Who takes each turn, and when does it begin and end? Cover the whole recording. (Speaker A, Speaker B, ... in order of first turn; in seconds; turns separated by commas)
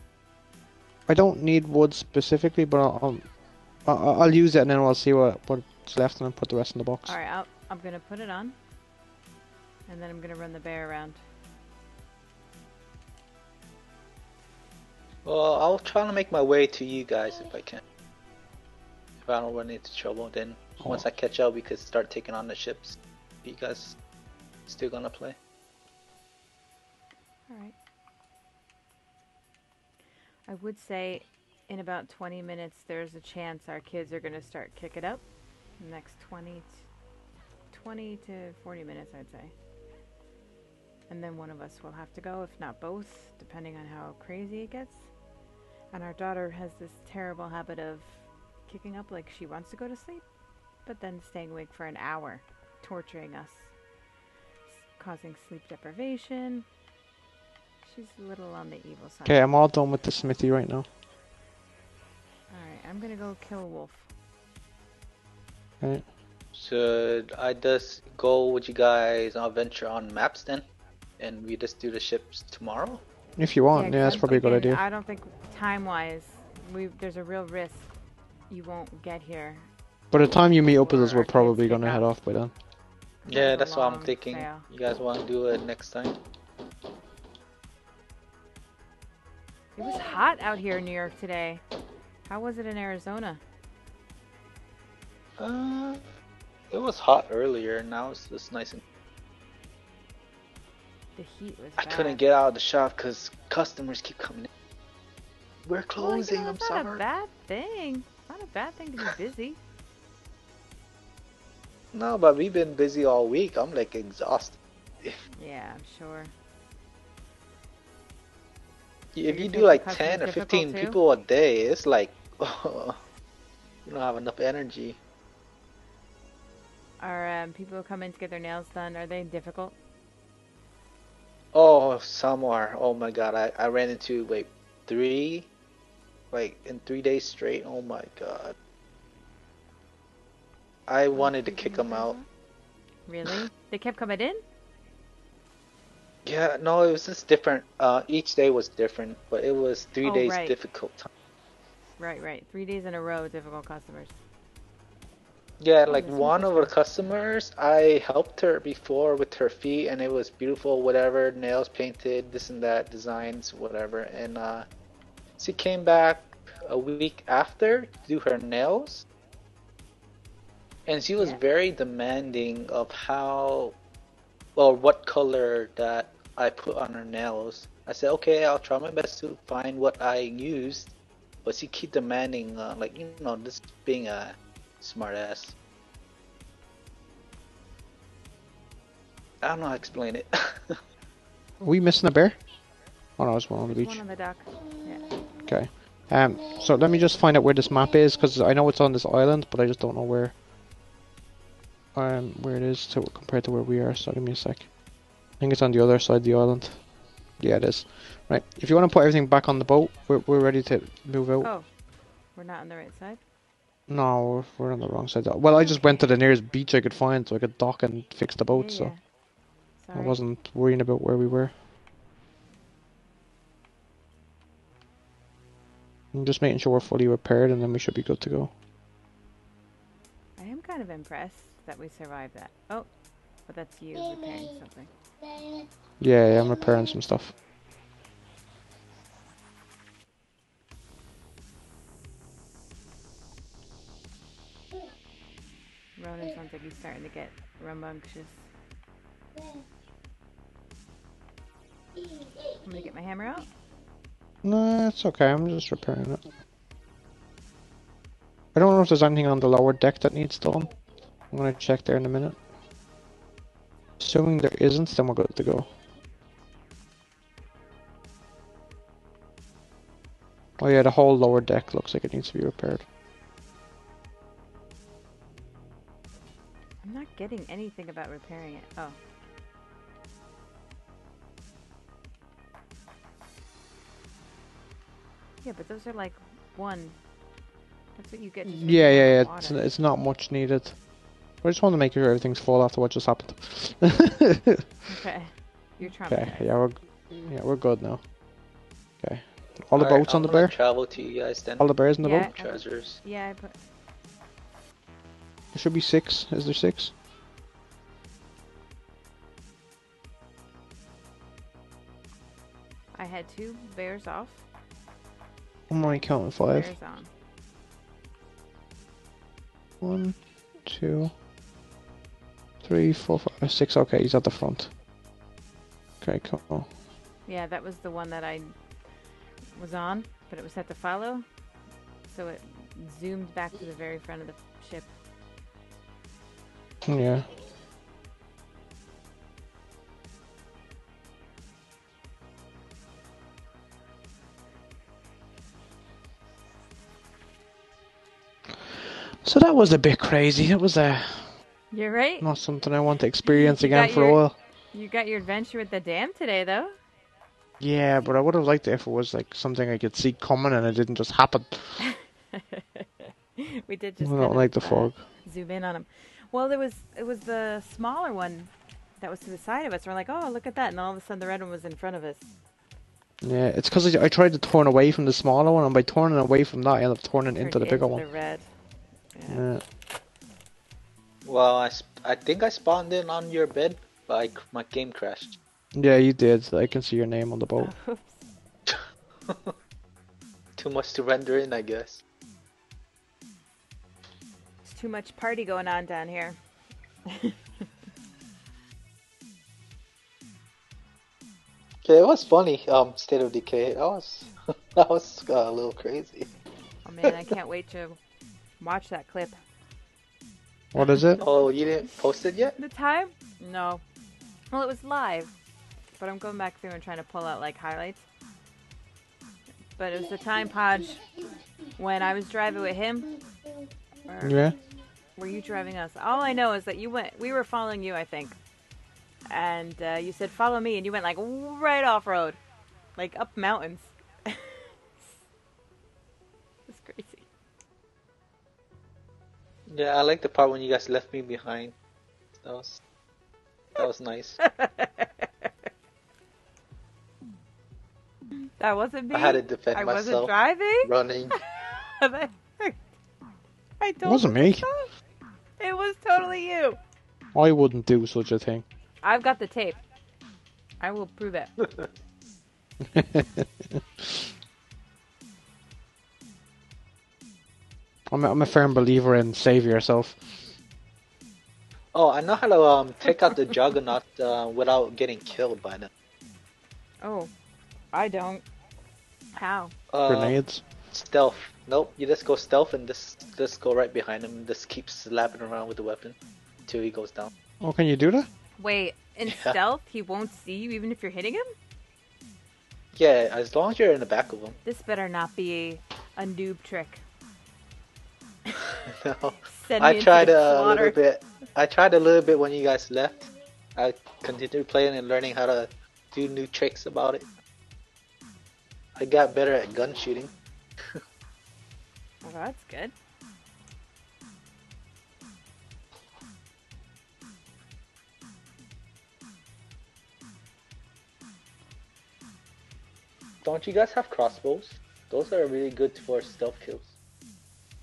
Speaker A: 1.1-3.3, Speaker A: 3.8-7.2, Speaker B: 7.0-8.6, Speaker B: 9.9-11.2, Speaker C: 15.2-17.8, Speaker C: 19.2-24.0, Speaker C: 24.7-25.4, Speaker B: 27.5-27.7, Speaker B: 30.5-35.2, Speaker B: 35.8-36.9, Speaker B: 37.7-39.5, Speaker B: 41.1-45.1, Speaker B: 45.9-50.2, Speaker B: 50.8-53.7, Speaker B: 54.7-56.6, Speaker B: 57.8-59.5, Speaker A: 59.2-60.9, Speaker B: 62.5-64.1, Speaker C: 66.5-70.7, Speaker C: 71.2-73.0, Speaker A: 73.4-74.8, Speaker B: 73.7-77.9, Speaker B: 78.5-79.7, Speaker A: 80.1-82.5, Speaker B: 80.4-82.1, Speaker B: 83.2-84.7, Speaker C: 83.3-86.2, Speaker B: 89.8-91.6, Speaker B: 92.3-93.4, Speaker C: 95.4-96.0, Speaker C: 96.7-98.8, Speaker B: 101.2-102.2, Speaker C: 101.8-104.5, Speaker C: 105.7-107.0, Speaker B: 106.0-109.6, Speaker C: 111.9-115.2, Speaker B: 115.3-116.3, Speaker C: 119.1-123.0, Speaker B: 119.3-121.0, Speaker C: 123.8-125.0, Speaker B: 127.0-129.7, Speaker C: 131.5-135.5, Speaker C: 136.3-138.5, Speaker C: 140.9-142.1, Speaker B: 141.1-142.2, Speaker B: 143.1-144.4, Speaker C: 146.2-151.1, Speaker B: 150.0-150.5, Speaker B: 152.0-154.2, Speaker C: 155.6-164.7, Speaker B: 155.9-156.7, Speaker C: 165.4-169.1, Speaker C: 170.8-173.8, Speaker C: 174.6-185.5, Speaker C: 189.4-190.8, Speaker A: 191.6-192.4, Speaker A: 193.2-194.0, Speaker B: 193.7-195.1, Speaker A: 195.4-200.3, Speaker A: 201.9-204.7, Speaker A: 205.4-206.8, Speaker A: 207.4-211.5, Speaker B: 211.4-211.7, Speaker B: 212.3-213.2, Speaker A: 213.9-218.9, Speaker B: 215.6-216.0, Speaker B: 218.5-219.0, Speaker B: 219.8-220.2, Speaker A: 219.9-221.5, Speaker A: 226.1-228.5, Speaker B: 230.4-232.9, Speaker B: 233.4-234.9, Speaker A: 236.0-237.3, Speaker B: 245.9-248.4, Speaker B: 252.6-253.5, Speaker A: 254.4-256.2, Speaker A: 258.5-260.7, Speaker A: 261.3-262.4, Speaker A: 264.0-265.7, Speaker A: 270.6-272.9, Speaker B: 276.8-279.0, Speaker B: 285.4-287.0, Speaker B: 287.9-289.6, Speaker A: 288.4-290.8, Speaker A: 291.4-294.6, Speaker B: 294.9-296.5, Speaker A: 296.1-298.0, Speaker A: 299.0-300.5, Speaker C: 299.7-303.0, Speaker A: 301.6-302.3, Speaker B: 302.0-303.6, Speaker A: 305.5-306.9, Speaker B: 312.9-314.4, Speaker A: 315.7-316.7, Speaker B: 316.4-317.1, Speaker A: 319.8-321.1, Speaker A: 322.6-324.7, Speaker A: 326.0-326.7, Speaker B: 327.2-328.5, Speaker B: 329.5-331.2, Speaker B: 332.1-334.9, Speaker A: 336.8-337.3, Speaker A: 348.8-351.4, Speaker B: 351.7-352.3, Speaker A: 352.2-354.3, Speaker B: 353.2-354.2, Speaker B: 354.7-356.8, Speaker A: 357.6-361.8, Speaker B: 361.8-372.2, Speaker A: 364.0-365.0, Speaker A: 373.2-378.0, Speaker B: 377.4-378.5, Speaker B: 379.1-379.4, Speaker A: 379.3-379.6, Speaker C: 381.2-385.3, Speaker A: 385.7-387.7, Speaker B: 387.6-388.2, Speaker C: 388.7-389.5, Speaker C: 390.6-392.0, Speaker B: 394.6-396.4, Speaker B: 397.1-397.4, Speaker C: 401.8-406.3, Speaker B: 406.8-408.0, Speaker B: 408.6-409.4, Speaker A: 410.7-411.2, Speaker B: 410.8-411.2, Speaker C: 411.2-412.6, Speaker B: 412.6-413.8, Speaker B: 414.5-415.3, Speaker B: 416.0-418.0, Speaker B: 419.8-421.0, Speaker B: 421.8-423.1, Speaker B: 424.1-424.5, Speaker A: 424.2-424.6, Speaker B: 425.1-428.4, Speaker B: 429.3-432.4, Speaker B: 432.9-435.1, Speaker B: 436.7-437.2, Speaker C: 439.7-441.7, Speaker C: 442.4-442.8, Speaker C: 443.8-444.4, Speaker B: 444.4-445.5, Speaker B: 448.6-452.8, Speaker C: 449.1-451.4, Speaker B: 453.8-454.9, Speaker A: 454.0-454.6, Speaker B: 455.6-456.8, Speaker A: 457.3-458.6, Speaker B: 459.0-459.8, Speaker B: 460.8-461.5, Speaker A: 462.9-464.2, Speaker A: 468.1-470.2, Speaker C: 471.9-475.9, Speaker B: 477.0-477.3, Speaker B: 477.9-478.4, Speaker B: 479.3-479.7, Speaker C: 479.9-487.3, Speaker A: 480.1-480.6, Speaker A: 487.6-488.3, Speaker B: 488.6-491.5, Speaker C: 489.3-489.6, Speaker C: 492.9-494.6, Speaker B: 494.6-497.0, Speaker B: 498.5-498.7, Speaker C: 498.9-507.2, Speaker B: 499.5-501.0, Speaker C: 508.9-510.3, Speaker B: 512.2-512.9, Speaker C: 523.4-526.9